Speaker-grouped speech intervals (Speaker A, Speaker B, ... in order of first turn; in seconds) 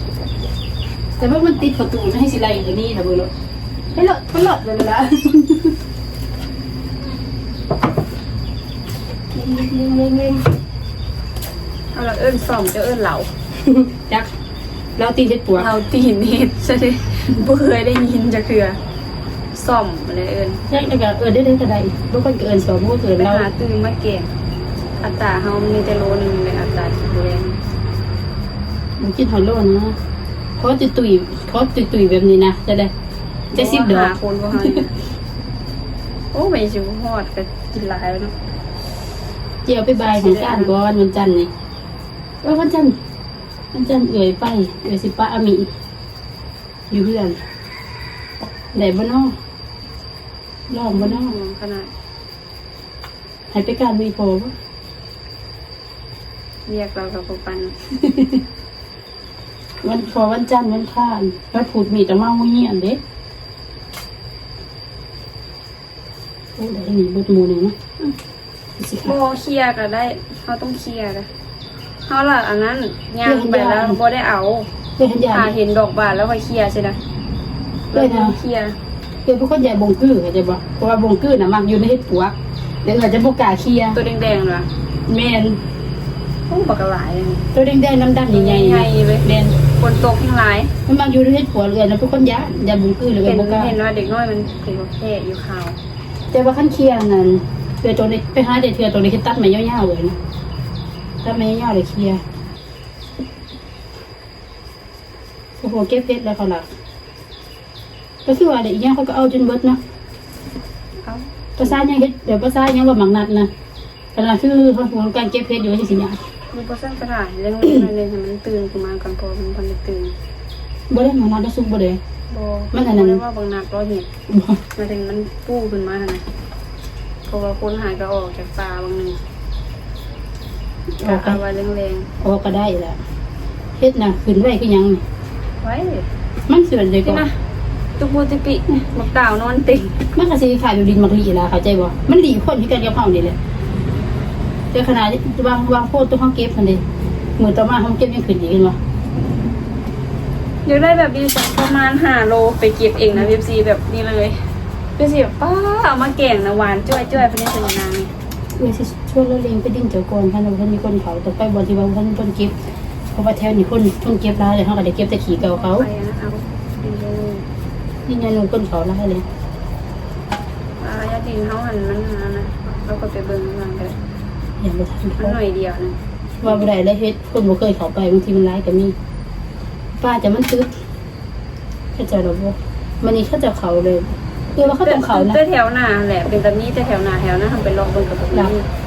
Speaker A: 1.2-3.3, 3.9-5.8, 9.3-10.5, 13.6-14.3, 15.0-15.7, 20.7-23.5, 29.0-30.0, 30.6-32.9, 33.5-34.9, 39.6-41.5, 42.4-43.0, 43.7-45.7, 46.9-47.4, 48.7-49.4, 50.7-51.4, 53.5-54.5, 57.9-58.4, 59.8-63.0, 66.6-67.8, 68.8-69.2, 73.2-74.0, 75.0-75.5, 77.9-78.4, 79.3-84.0, 85.1-85.6, 87.5-89.5, 90.9-93.8, 96.3-100.2, 101.2-102.2, 105.6-106.7, 108.3-109.8, 111.6-113.5, 114.2-116.2, 120.9-122.0, 122.7-123.2, 124.3-124.6, 131.0-131.4, 132.2-133.0, 133.8-135.0, 136.5-137.2, 140.2-143.4, 144.7-146.8, 147.4-148.8, 158.6-162.5, 163.1-165.9, 168.1-169.2, 174.6-175.4, 176.4-178.9, 180.0-180.7, 182.0-185.4
Speaker B: 11.9-13.3, 15.6-18.8, 19.5-20.6, 23.2-24.3, 25.0-27.6, 33.5-34.9, 36.3-38.3, 40.0-40.8, 50.9-51.9, 56.7-57.8, 69.0-71.3, 72.1-74.7, 75.3-77.0, 77.9-78.8, 84.0-84.7, 86.5-87.4, 88.3-89.3, 89.8-90.7, 93.2-95.8, 111.0-111.3, 116.5-120.1, 122.3-124.1, 124.8-126.2, 127.3-129.2, 131.0-132.1, 135.6-136.1, 137.0-137.3, 138.0-140.0, 150.7-154.4, 155.0-158.1, 165.4-167.5, 170.8-174.0, 175.2-176.0, 184.6-188.7